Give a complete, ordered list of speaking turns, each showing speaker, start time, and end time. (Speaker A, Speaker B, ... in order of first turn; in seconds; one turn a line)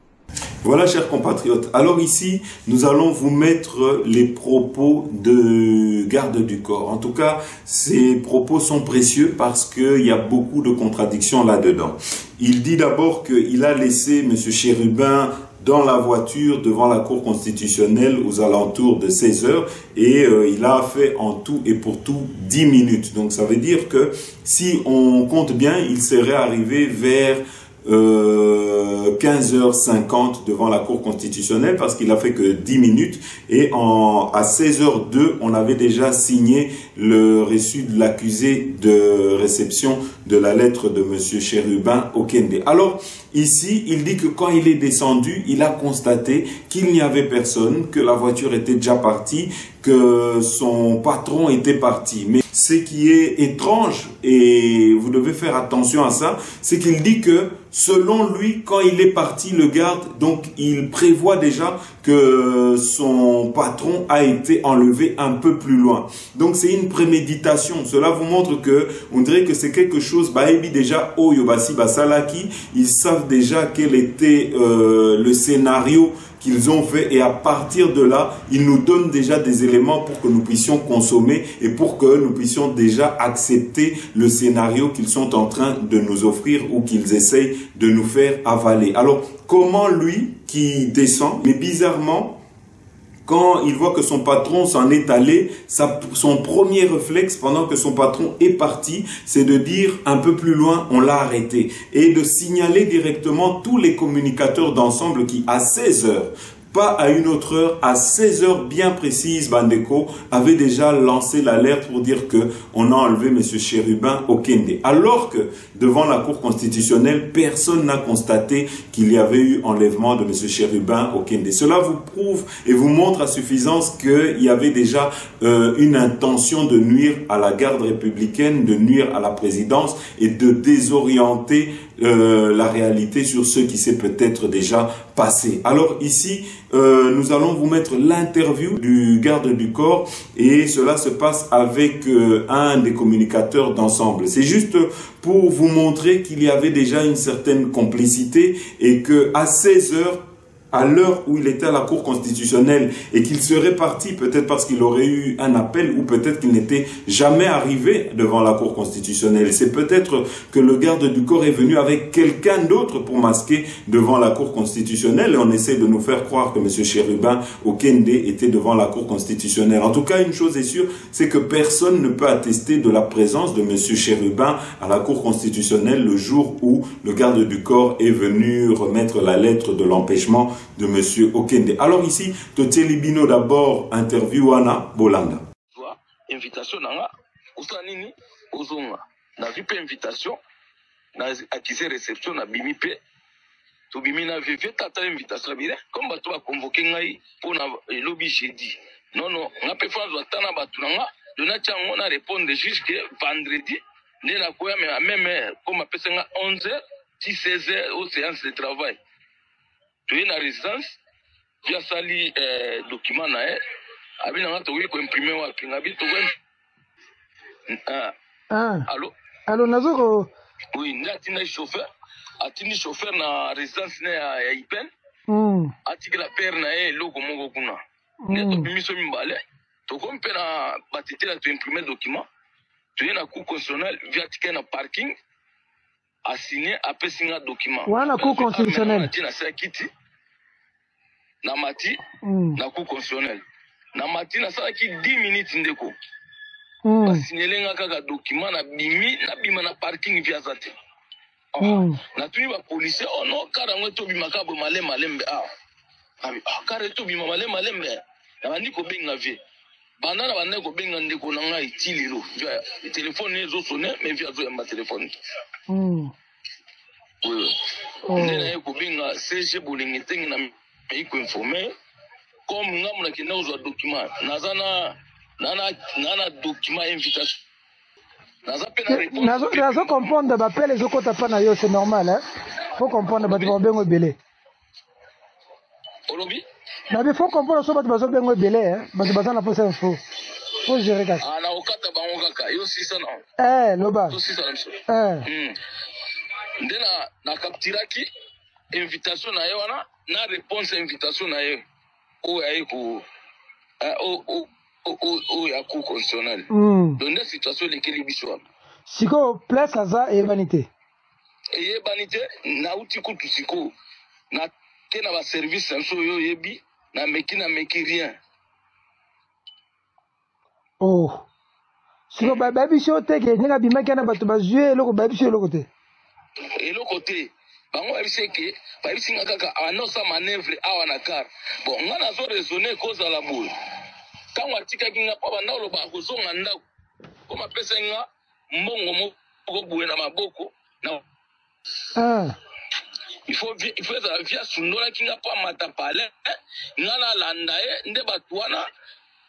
Speaker A: 0.6-92.4
Speaker A: 93.2-150.2
Speaker A: 150.7-185.4
Speaker B: 185.7-190.4
Speaker B: 191.2-193.0
Speaker B: 193.9-209.0
Speaker B: 210.1-210.9
Speaker B: 211.6-213.6
Speaker B: 214.2-216.3
Speaker B: 217.7-218.1
Speaker C: 218.5-218.9
Speaker B: 218.9-219.1
Speaker C: 219.5-220.3
Speaker B: 220.7-221.8
Speaker B: 222.4-224.9
Speaker C: 225.3-225.7
Speaker B: 225.8-227.8
Speaker C: 228.2-228.7
Speaker B: 228.3-232.2
Speaker B: 232.9-235.1
Speaker B: 236.2-239.9
Speaker C: 237.8-239.1
Speaker B: 241.4-242.0
Speaker C: 242.2-242.6
Speaker B: 242.6-243.4
Speaker B: 243.9-245.9
Speaker C: 246.8-247.2
Speaker B: 247.0-250.7
Speaker B: 251.5-255.5
Speaker C: 251.6-252.0
Speaker B: 256.2-259.4
Speaker B: 260.0-265.1
Speaker C: 265.7-266.1
Speaker B: 267.2-267.6
Speaker C: 268.1-268.5
Speaker B: 268.1-271.7
Speaker B: 272.5-277.4
Speaker B: 278.4-279.9
Speaker C: 278.9-284.2
Speaker B: 283.1-283.5
Speaker B: 286.1-286.4
Speaker C: 286.9-290.0
Speaker C: 290.6-291.2
Speaker B: 291.2-293.2
Speaker C: 293.4-294.2
Speaker B: 294.1-295.6
Speaker C: 294.9-295.3
Speaker B: 296.6-298.1
Speaker B: 298.7-301.6
Speaker B: 302.2-303.0
Speaker B: 303.8-308.4
Speaker C: 306.5-307.0
Speaker C: 308.9-310.7
Speaker B: 311.5-313.7
Speaker B: 314.3-318.1
Speaker C: 320.8-321.2
Speaker C: 322.1-325.7
Speaker B: 326.5-333.5
Speaker B: 334.3-336.6
Speaker B: 337.3-341.0
Speaker C: 341.9-342.4
Speaker B: 343.3-348.7